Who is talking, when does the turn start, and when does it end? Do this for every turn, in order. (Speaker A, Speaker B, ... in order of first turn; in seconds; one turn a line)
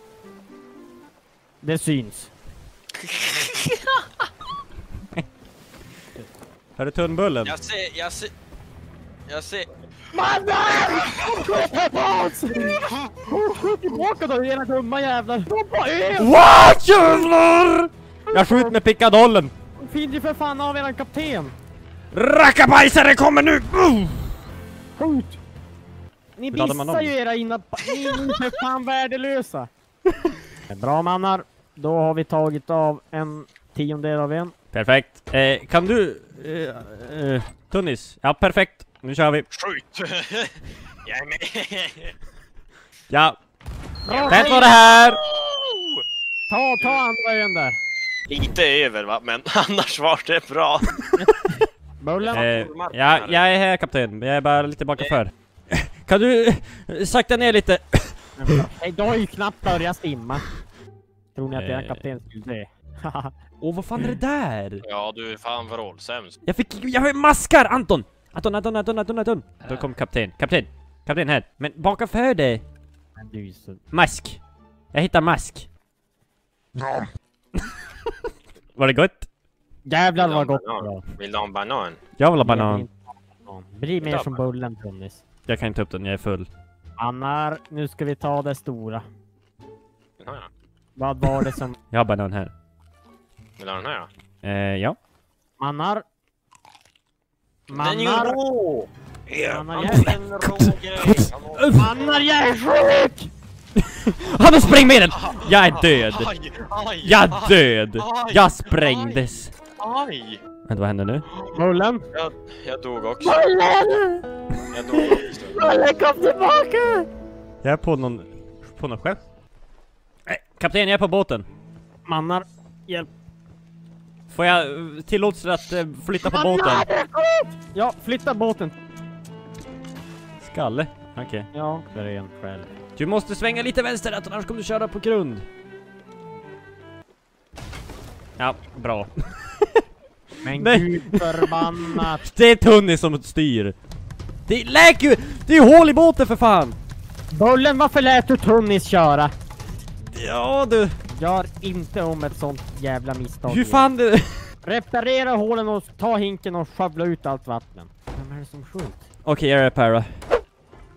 Speaker A: 1.6-2.3
Speaker B: 3.0-4.0
Speaker C: 6.8-7.5
Speaker B: 7.4-8.3
Speaker B: 9.3-9.7
Speaker A: 10.1-16.3
Speaker B: 10.8-11.4
Speaker B: 12.6-13.2
Speaker C: 16.2-19.5
Speaker A: 18.3-18.8
Speaker A: 19.8-21.5
Speaker C: 22.1-24.4
Speaker A: 25.0-25.4
Speaker A: 26.4-29.7
Speaker C: 26.5-27.1
Speaker C: 28.1-28.4
Speaker A: 30.7-34.5
Speaker C: 34.7-39.4
Speaker B: 39.5-40.5
Speaker B: 41.0-42.1
Speaker C: 43.1-43.4
Speaker A: 44.0-44.7
Speaker B: 44.1-46.0
Speaker C: 44.3-45.2
Speaker A: 46.5-47.8
Speaker B: 48.3-51.1
Speaker A: 51.2-52.5
Speaker B: 52.2-53.4
Speaker C: 52.3-58.6
Speaker A: 58.4-60.4
Speaker A: 61.3-63.3
Speaker C: 61.5-62.0
Speaker C: 63.6-64.8
Speaker B: 64.8-66.4
Speaker C: 66.4-72.6
Speaker A: 73.2-73.8
Speaker C: 73.9-74.4
Speaker C: 74.9-75.7
Speaker C: 78.8-79.3
Speaker A: 79.8-81.0
Speaker B: 80.2-82.0
Speaker C: 82.2-82.8
Speaker A: 82.4-85.2
Speaker B: 84.0-84.4
Speaker C: 85.5-86.5
Speaker A: 87.0-89.0
Speaker B: 90.2-90.5
Speaker A: 91.0-91.8
Speaker C: 91.9-92.5
Speaker B: 93.6-94.1
Speaker C: 94.4-95.0
Speaker A: 95.6-96.0
Speaker B: 97.7-102.2
Speaker A: 97.7-98.4
Speaker A: 99.4-100.2
Speaker C: 99.7-101.9
Speaker A: 101.7-103.3
Speaker C: 103.8-106.3
Speaker B: 105.1-109.2
Speaker C: 107.0-109.5
Speaker B: 109.8-110.4
Speaker C: 110.7-111.2
Speaker B: 111.3-111.6
Speaker A: 111.5-112.1
Speaker B: 112.1-113.4
Speaker A: 113.2-114.2
Speaker B: 114.7-115.5
Speaker A: 115.0-117.1
Speaker C: 117.6-119.2
Speaker C: 120.3-121.5
Speaker A: 122.0-123.1
Speaker C: 124.3-126.8
Speaker A: 126.2-128.8
Speaker C: 130.4-131.5
Speaker A: 131.5-132.7
Speaker C: 133.0-135.4
Speaker C: 138.4-139.1
Speaker A: 140.4-142.3
Speaker C: 140.5-143.7
Speaker C: 144.5-146.8
Speaker A: 147.3-149.3
Speaker C: 150.1-150.9
Speaker A: 151.1-153.9
Speaker C: 153.5-154.4
Speaker A: 154.6-159.0
Speaker C: 159.2-160.1